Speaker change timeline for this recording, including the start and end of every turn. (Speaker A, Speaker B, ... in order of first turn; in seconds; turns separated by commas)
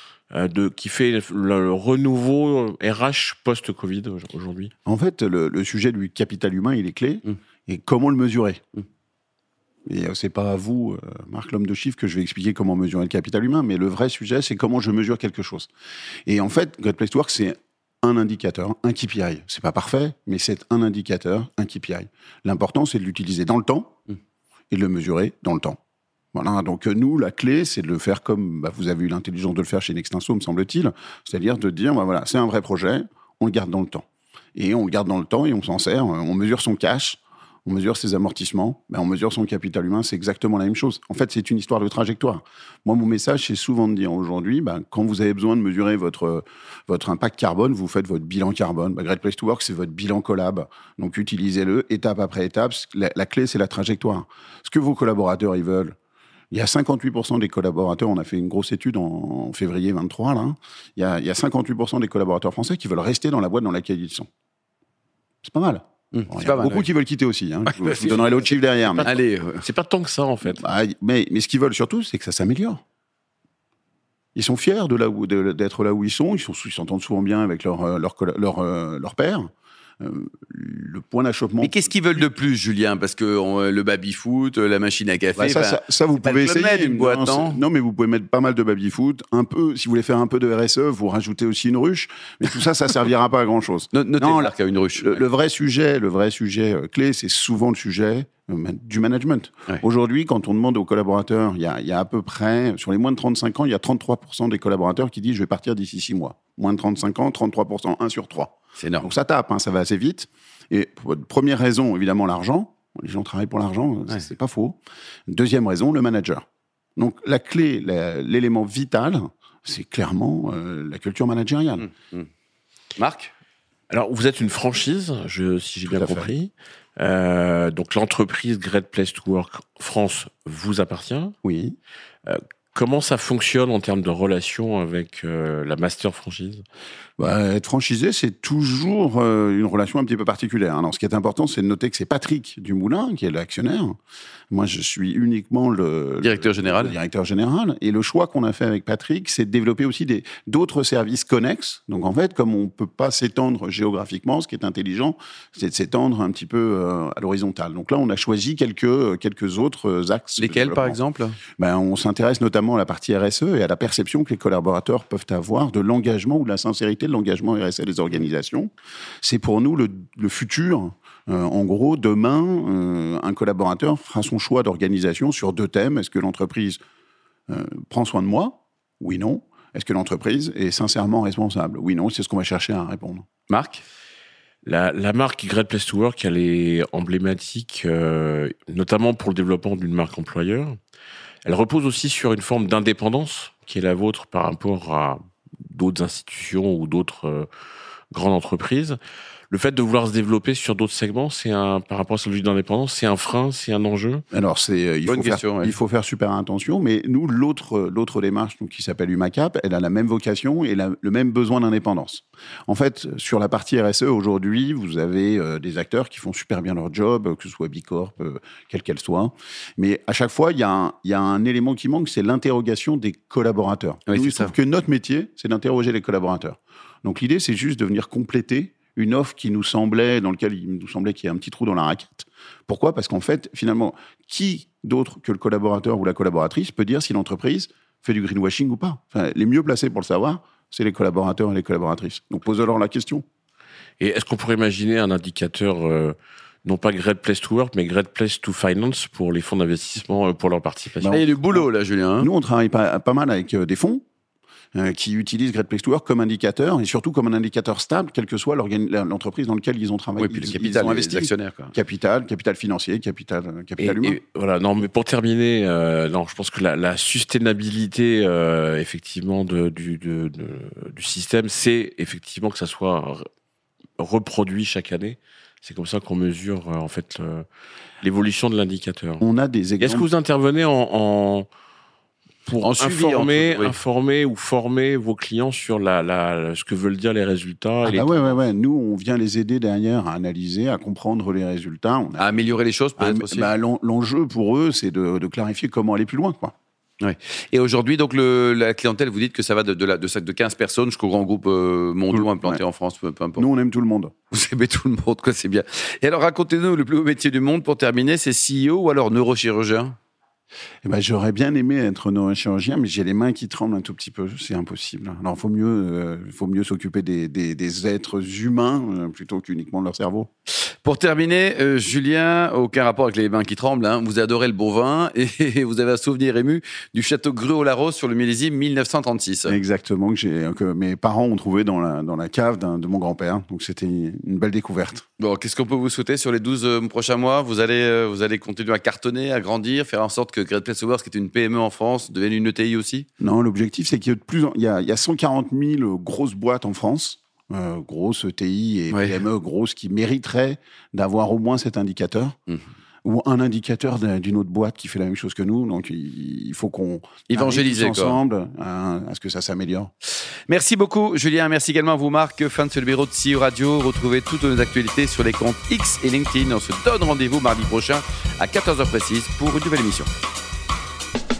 Speaker A: 0.3-4.7, Speaker B: 4.8-8.6, Speaker B: 9.9-15.7, Speaker B: 16.3-24.0, Speaker B: 24.7-25.8, Speaker B: 26.3-56.0, Speaker B: 56.5-64.3, Speaker B: 65.4-69.1, Speaker C: 66.1-66.9, Speaker C: 67.7-69.6, Speaker A: 68.9-70.6, Speaker B: 70.6-72.8, Speaker B: 74.3-82.2, Speaker C: 81.6-87.6, Speaker B: 85.4-116.4, Speaker C: 93.9-95.2, Speaker C: 108.8-109.1, Speaker B: 117.0-121.9, Speaker C: 121.8-122.3, Speaker C: 123.0-123.3, Speaker A: 123.9-131.3, Speaker B: 125.9-126.3, Speaker B: 131.4-131.8, Speaker A: 132.3-136.6, Speaker B: 137.2-144.0, Speaker B: 144.5-161.0, Speaker C: 146.2-146.9, Speaker C: 160.4-161.4, Speaker B: 161.6-168.7, Speaker B: 169.2-176.8, Speaker B: 177.5-183.3, Speaker C: 183.5-183.8, Speaker A: 184.6-190.8, Speaker A: 191.4-197.5, Speaker A: 198.1-199.0, Speaker A: 199.5-204.2, Speaker B: 204.3-243.2, Speaker C: 205.1-205.8, Speaker C: 224.1-224.5, Speaker A: 244.0-251.2, Speaker B: 251.0-251.7, Speaker C: 251.1-252.3, Speaker B: 252.2-254.0, Speaker B: 254.7-264.2, Speaker C: 260.2-261.7, Speaker A: 263.8-273.2, Speaker A: 274.0-277.5, Speaker A: 278.0-279.2, Speaker B: 279.2-280.1, Speaker A: 279.8-281.5, Speaker A: 282.5-288.3, Speaker C: 282.6-283.8, Speaker B: 287.9-292.3, Speaker C: 292.2-293.5, Speaker B: 293.0-296.5, Speaker C: 297.0-303.4, Speaker B: 302.1-302.6, Speaker B: 303.4-304.1, Speaker C: 304.3-310.0, Speaker B: 310.8-320.3, Speaker C: 320.8-329.6, Speaker B: 329.5-335.1, Speaker C: 335.2-343.1, Speaker B: 343.2-352.4, Speaker C: 348.9-349.2, Speaker B: 353.0-359.9, Speaker C: 357.3-358.2, Speaker C: 360.5-370.1